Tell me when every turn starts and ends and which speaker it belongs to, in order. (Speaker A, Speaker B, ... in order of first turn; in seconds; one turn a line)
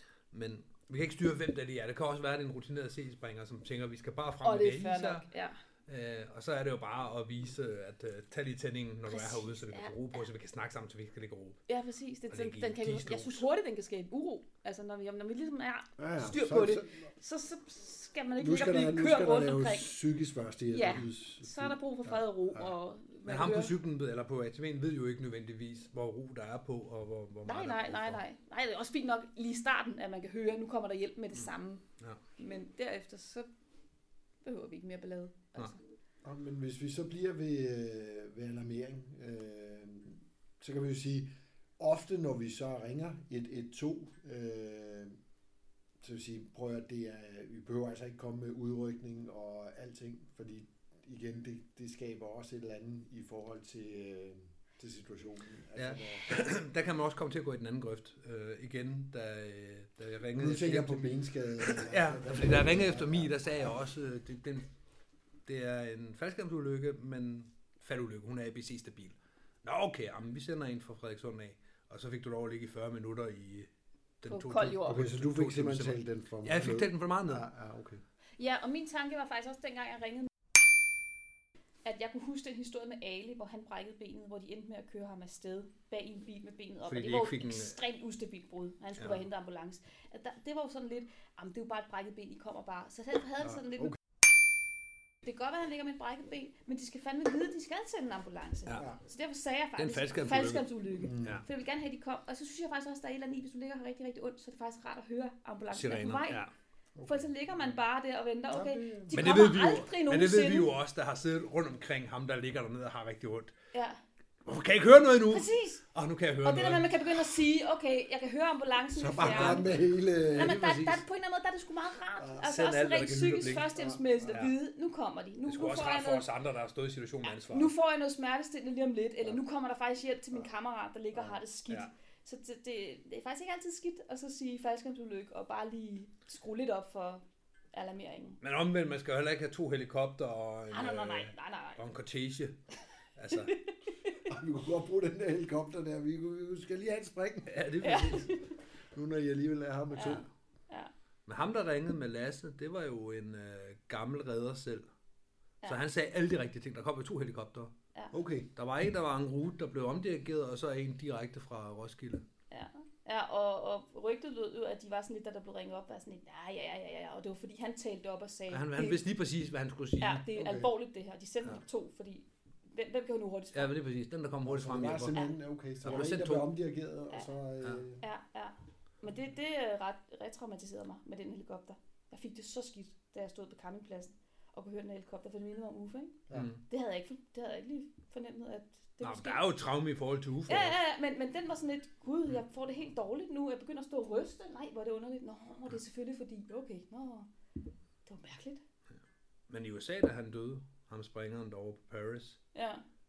Speaker A: 0.3-5.3
Speaker B: 4.4-5.6
Speaker A: 5.9-11.6
Speaker B: 9.1-9.9
Speaker B: 11.7-20.0
Speaker A: 12.3-13.4
Speaker C: 16.0-17.1
Speaker C: 18.4-22.7
Speaker B: 20.7-23.8
Speaker A: 23.2-28.2
Speaker B: 27.4-31.9
Speaker B: 32.4-33.5
Speaker B: 34.4-35.8
Speaker C: 36.2-45.2
Speaker C: 46.0-56.3
Speaker A: 55.8-64.7
Speaker C: 60.4-63.7
Speaker A: 65.5-73.7
Speaker A: 74.2-77.4
Speaker B: 74.3-75.0
Speaker C: 74.8-78.0
Speaker B: 78.4-80.3
Speaker B: 81.8-94.0
Speaker A: 86.8-87.8
Speaker B: 95.2-106.5
Speaker A: 99.8-100.7
Speaker C: 101.0-101.4
Speaker A: 105.7-106.5
Speaker C: 107.0-107.3
Speaker B: 107.0-110.7
Speaker C: 108.5-109.3
Speaker A: 109.1-113.5
Speaker B: 113.7-114.0
Speaker A: 114.4-116.9
Speaker B: 115.3-115.8
Speaker B: 116.4-119.7
Speaker C: 118.9-120.7
Speaker A: 119.2-119.7
Speaker B: 120.3-126.3
Speaker A: 120.3-121.0
Speaker C: 122.2-122.4
Speaker A: 122.4-123.7
Speaker C: 123.7-124.3
Speaker A: 124.3-124.5
Speaker A: 125.5-127.7
Speaker B: 127.2-138.4
Speaker C: 131.1-131.4
Speaker A: 138.4-142.6
Speaker B: 140.7-141.8
Speaker A: 143.2-143.5
Speaker B: 143.3-144.2
Speaker C: 144.3-147.7
Speaker A: 147.4-148.3
Speaker B: 147.8-148.6
Speaker C: 148.9-150.3
Speaker B: 149.9-150.9
Speaker A: 151.3-154.9
Speaker A: 155.6-157.7
Speaker C: 158.1-158.5
Speaker A: 158.5-162.2
Speaker B: 162.5-169.0
Speaker A: 168.5-170.2
Speaker B: 170.0-173.7
Speaker C: 170.3-170.7
Speaker A: 173.5-175.2
Speaker C: 174.4-178.0
Speaker B: 175.1-175.3
Speaker A: 175.8-176.5
Speaker B: 178.0-189.4
Speaker A: 186.3-186.6
Speaker A: 189.0-190.8
Speaker B: 190.5-197.3
Speaker B: 198.1-198.6
Speaker A: 198.9-202.4
Speaker B: 202.5-202.8